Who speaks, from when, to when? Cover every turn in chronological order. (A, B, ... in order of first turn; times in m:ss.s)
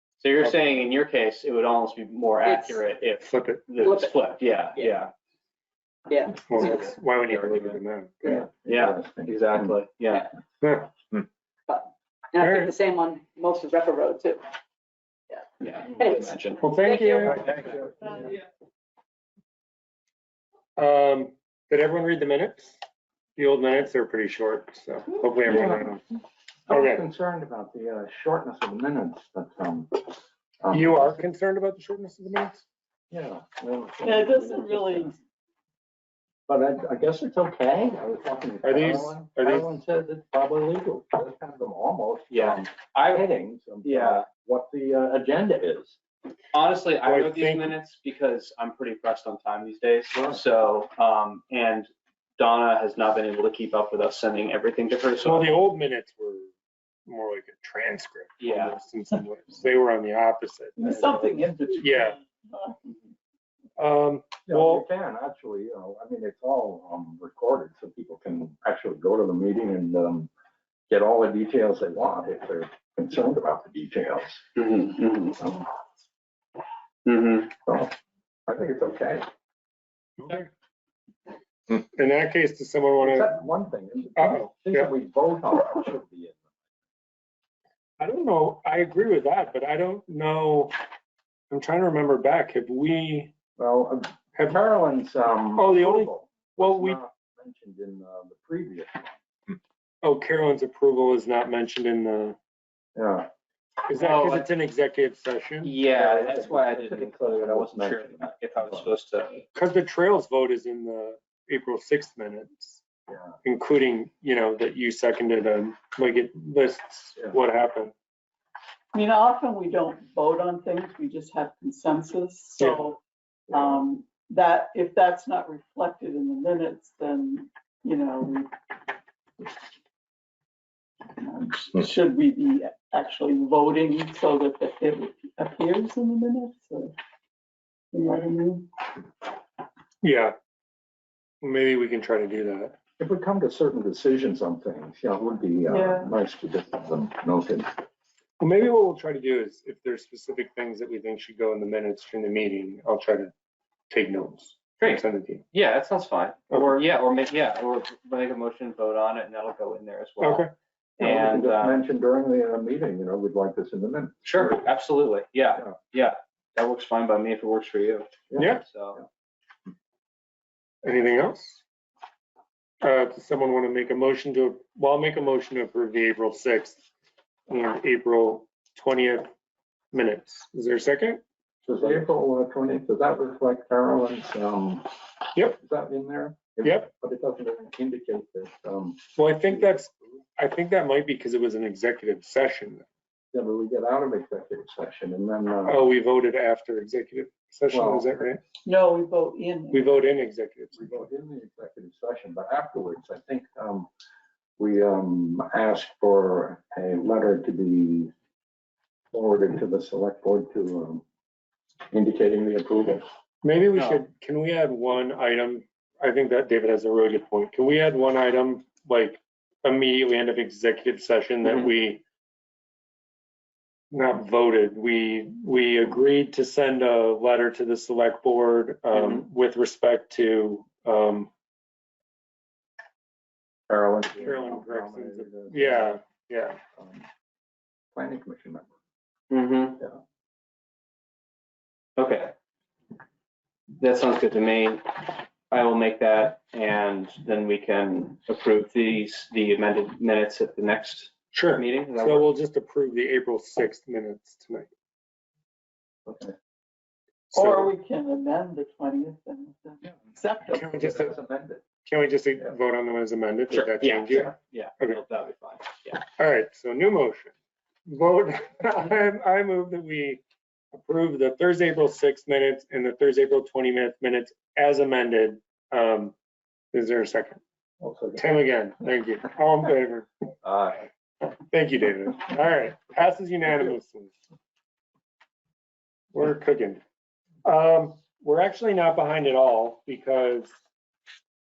0:00.2-0:05.1 A
0:02.4-0:02.8 B
0:03.2-0:03.8 C
0:03.8-0:05.0 B
0:06.1-0:06.9 B
0:06.4-0:08.2 C
0:06.5-0:07.8 A
0:08.2-0:08.4 B
0:08.2-0:09.8 D
0:08.6-0:10.3 A
0:10.6-0:10.9 C
0:11.7-0:14.4 B
0:12.4-0:12.7 C
0:15.3-0:18.3 B
0:15.6-0:16.6 A
0:16.6-0:17.8 C
0:20.8-0:22.7 C
0:23.4-0:26.0 C
0:25.1-0:26.0 D
0:26.7-0:30.0 D
0:26.7-0:27.0 C
0:30.6-0:31.2 D
0:30.7-0:32.6 C
0:33.1-0:35.2 D
0:34.0-0:35.2 E
0:36.5-0:46.0 D
0:38.6-0:39.8 C
0:42.3-0:43.3 A
0:43.8-0:44.3 A
0:46.5-0:55.6 A
0:47.0-0:47.8 C
0:55.2-0:56.5 C
0:57.0-1:01.0 C
0:58.4-0:58.8 A
1:00.8-1:02.9 E
1:00.8-1:01.6 D
1:01.8-1:02.2 C
1:03.8-1:04.8 C
1:04.5-1:10.3 D
1:10.9-1:14.4 D
1:14.6-1:15.4 A
1:15.4-1:15.7 D
1:17.0-1:17.5 A
1:17.6-1:17.9 D
1:18.5-1:19.2 D
1:20.2-1:20.5 C
1:21.7-1:23.4 C
1:23.0-1:26.4 D
1:24.2-1:24.9 C
1:28.0-1:30.7 C
1:31.5-1:33.4 C
1:33.6-1:39.2 D
1:35.6-1:37.0 C
1:40.0-1:42.4 C
1:43.0-1:43.3 D
1:43.9-1:45.8 C
1:43.9-1:44.4 A
1:45.6-1:49.4 A
1:45.9-1:48.9 D
1:49.5-1:52.8 C
1:53.4-1:57.9 C
1:58.9-2:03.0 E
2:02.6-2:02.8 C
2:03.5-2:08.5 E
2:03.5-2:03.8 D
2:11.2-2:16.9 E
2:17.9-2:18.7 E
2:20.0-2:20.3 C
2:21.4-2:22.7 C
2:23.0-2:27.7 D
2:25.7-2:26.1 E
2:28.4-2:33.3 C
2:33.9-2:35.4 C
2:34.8-2:41.8 A
2:40.2-2:40.5 C
2:41.0-2:44.6 D
2:44.2-2:49.0 A
2:48.3-2:48.6 D
2:48.4-2:48.6 C
2:50.8-2:51.6 C
2:52.8-2:56.8 C
2:57.5-2:59.3 C
2:59.9-3:01.2 C
3:01.6-3:04.9 D
3:05.4-3:09.7 D
3:06.6-3:06.9 C
3:09.2-3:12.8 C
3:13.3-3:15.8 D
3:15.6-3:18.4 C
3:17.7-3:18.1 D
3:18.6-3:20.0 E
3:19.7-3:21.0 C
3:20.8-3:23.9 D
3:24.6-3:28.1 D
3:29.1-3:31.0 D
3:31.9-3:33.0 D
3:33.4-3:42.0 C
3:33.8-3:34.0 A
3:43.9-3:51.3 C
3:48.9-3:49.3 A
3:53.7-3:56.0 D
3:54.2-3:56.6 C
3:56.8-3:57.0 D
3:57.9-3:58.7 D
3:59.3-3:59.8 A
4:02.0-4:02.3 A
4:03.8-4:04.9 A
4:05.5-4:12.3 A
4:11.3-4:14.7 C
4:16.1-4:16.3 D
4:17.3-4:17.7 C
4:17.3-4:20.8 E
4:20.5-4:21.1 C
4:20.7-4:21.6 D
4:21.8-4:25.0 C
4:23.5-4:26.0 A
4:26.0-4:27.3 C
4:27.9-4:36.2 C
4:36.7-4:37.4 C
4:37.8-4:38.2 D
4:38.1-4:40.3 C
4:40.4-4:40.8 D
4:41.2-4:44.1 C
4:46.1-4:46.8 C
4:47.4-4:50.5 C